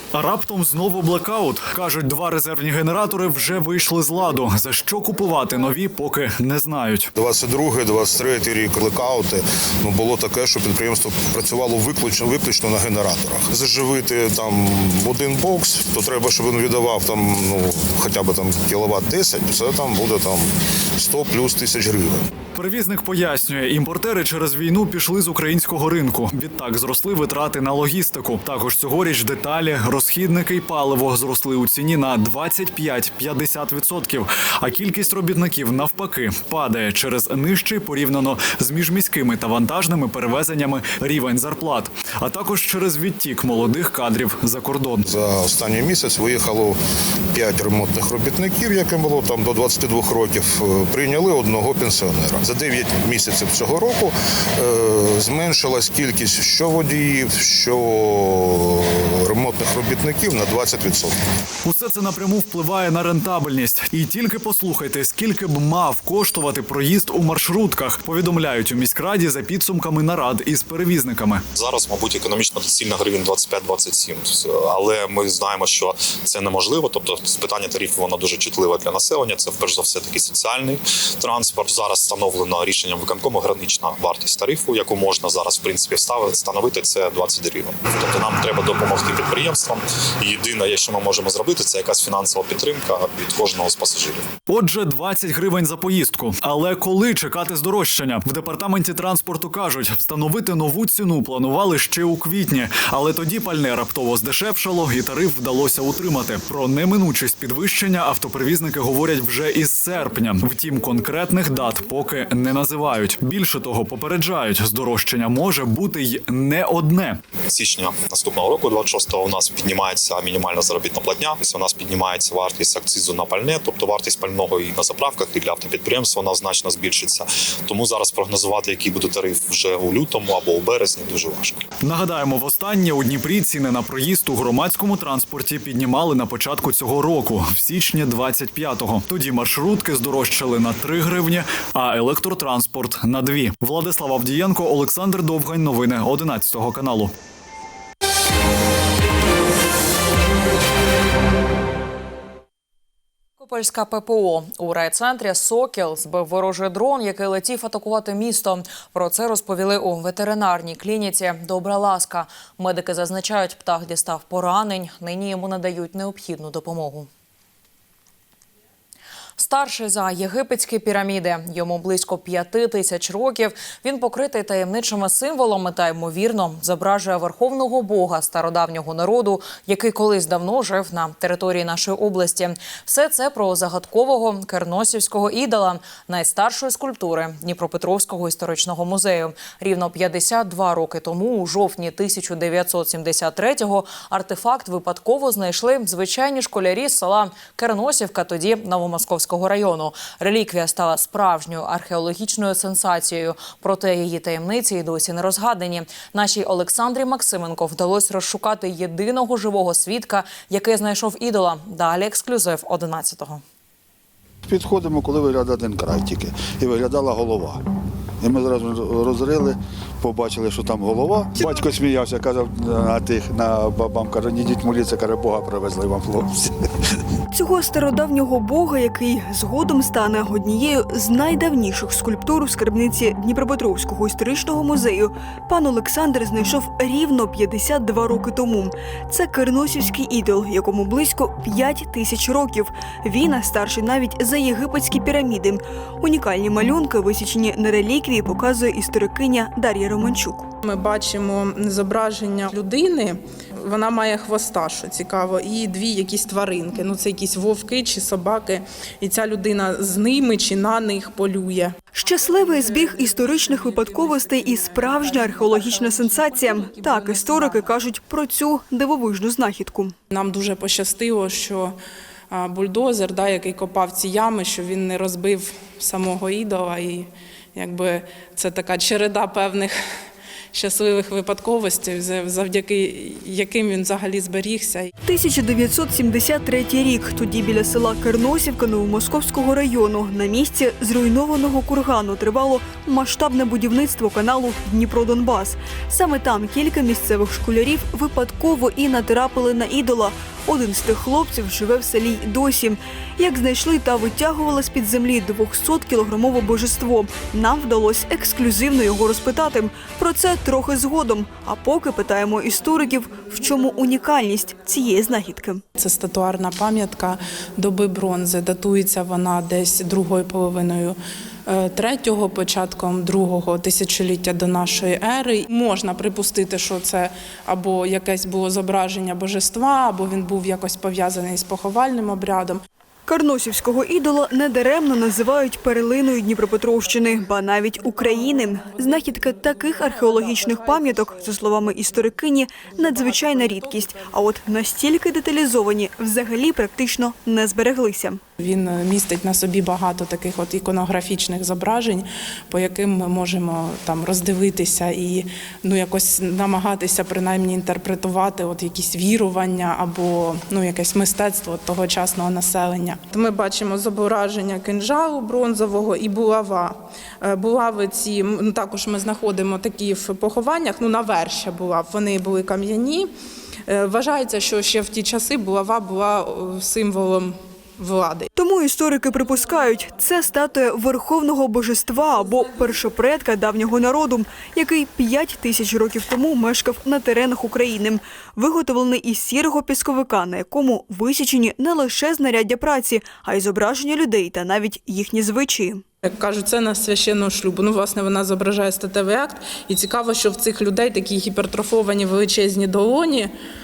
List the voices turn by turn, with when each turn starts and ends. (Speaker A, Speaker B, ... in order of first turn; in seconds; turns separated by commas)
Speaker A: 0.1-7.1, Speaker B: 7.2-22.3, Speaker A: 22.6-45.0, Speaker B: 45.0-46.8, Speaker B: 47.3-61.1, Speaker A: 61.6-71.4, Speaker C: 71.5-94.3, Speaker A: 94.5-117.2, Speaker C: 117.5-131.6, Speaker A: 131.8-147.1, Speaker D: 153.4-167.1, Speaker D: 169.4-213.4, Speaker E: 214.5-217.6, Speaker E: 218.2-226.7, Speaker F: 227.3-250.5, Speaker G: 250.6-261.8, Speaker F: 261.9-269.9, Speaker G: 263.5-267.7, Speaker G: 270.1-271.8, Speaker G: 272.3-279.8, Speaker G: 280.5-284.9, Speaker F: 285.1-315.6, Speaker G: 315.8-332.6, Speaker F: 333.1-348.2, Speaker G: 348.4-373.1, Speaker G: 373.7-378.3, Speaker F: 378.4-395.8, Speaker G: 396.0-403.3